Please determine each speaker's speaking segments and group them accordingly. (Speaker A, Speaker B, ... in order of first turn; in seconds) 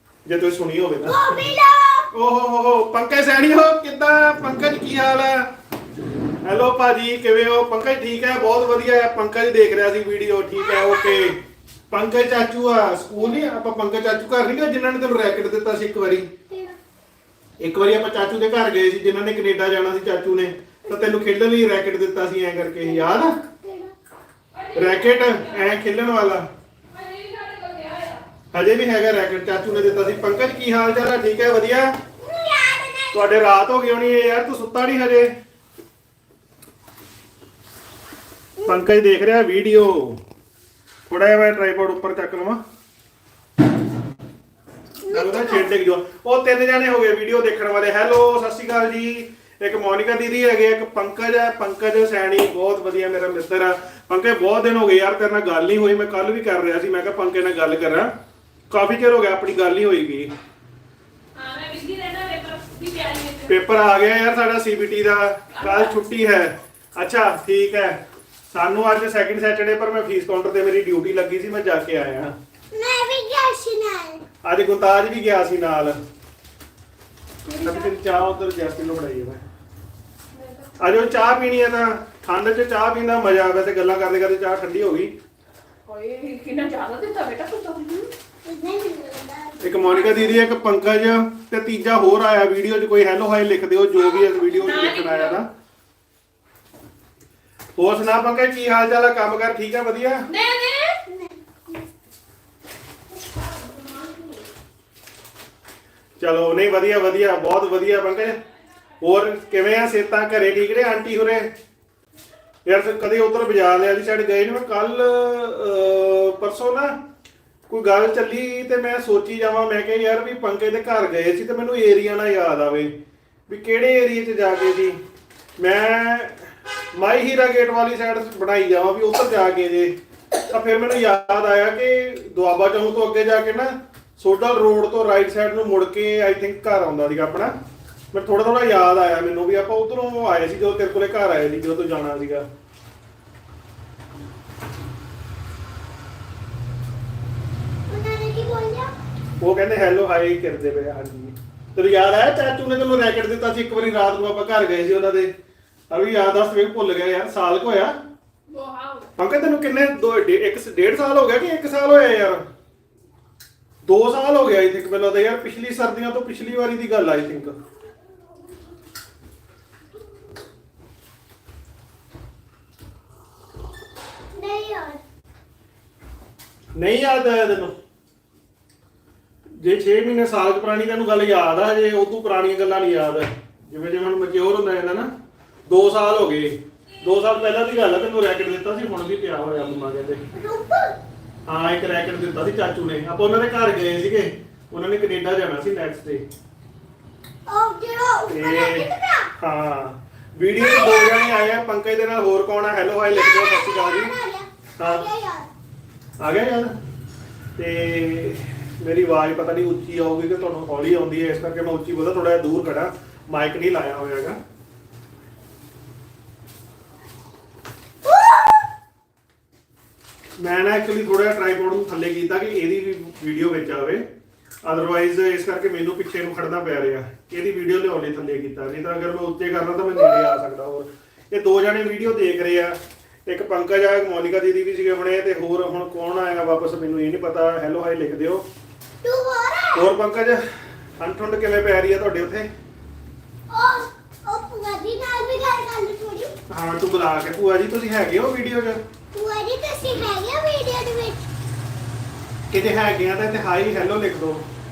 Speaker A: 0.3-1.5, 2.1-5.5, 6.4-16.3, 17.6-23.4, 24.7-26.5, 28.5-32.0, 33.1-35.4, 38.6-40.2, 41.1-42.6, 45.1-58.1, 58.7-60.3, 63.5-72.4, 74.4-76.0, 77.6-79.4, 80.8-85.1, 89.6-95.5, 97.8-100.3, 106.2-108.4, 109.0-111.5, 112.7-117.0, 117.7-122.9, 123.5-125.0, 125.6-130.0, 130.5-137.6, 138.1-142.5, 149.4-155.3, 155.9-158.0, 159.2-162.4, 163.8-167.6, 176.8-177.8, 179.6-185.1, 185.7-190.2, 191.5-196.2, 198.3-204.1, 204.8-205.1, 206.2-206.7, 207.6-214.4, 220.4-224.1, 224.6-238.5, 239.8-240.4, 241.0-242.5, 246.5-248.8, 252.5-254.5
Speaker B: 1.0-2.1, 10.6-11.4, 16.5-16.8, 22.9-23.9, 32.2-33.4, 45.0-45.7, 72.7-74.2, 88.5-90.5, 101.1-101.9, 147.9-148.9, 174.3-175.0, 190.3-191.0, 197.5-199.3, 200.6-201.4, 203.1-205.5, 239.0-239.9, 243.5-246.3, 249.1-251.3
Speaker C: 24.6-25.6, 26.9-28.2, 61.4-63.6, 65.6-65.9, 77.5-77.9, 80.3-80.7, 85.9-88.1, 94.1-95.4, 100.3-101.0, 103.7-104.2, 158.5-159.1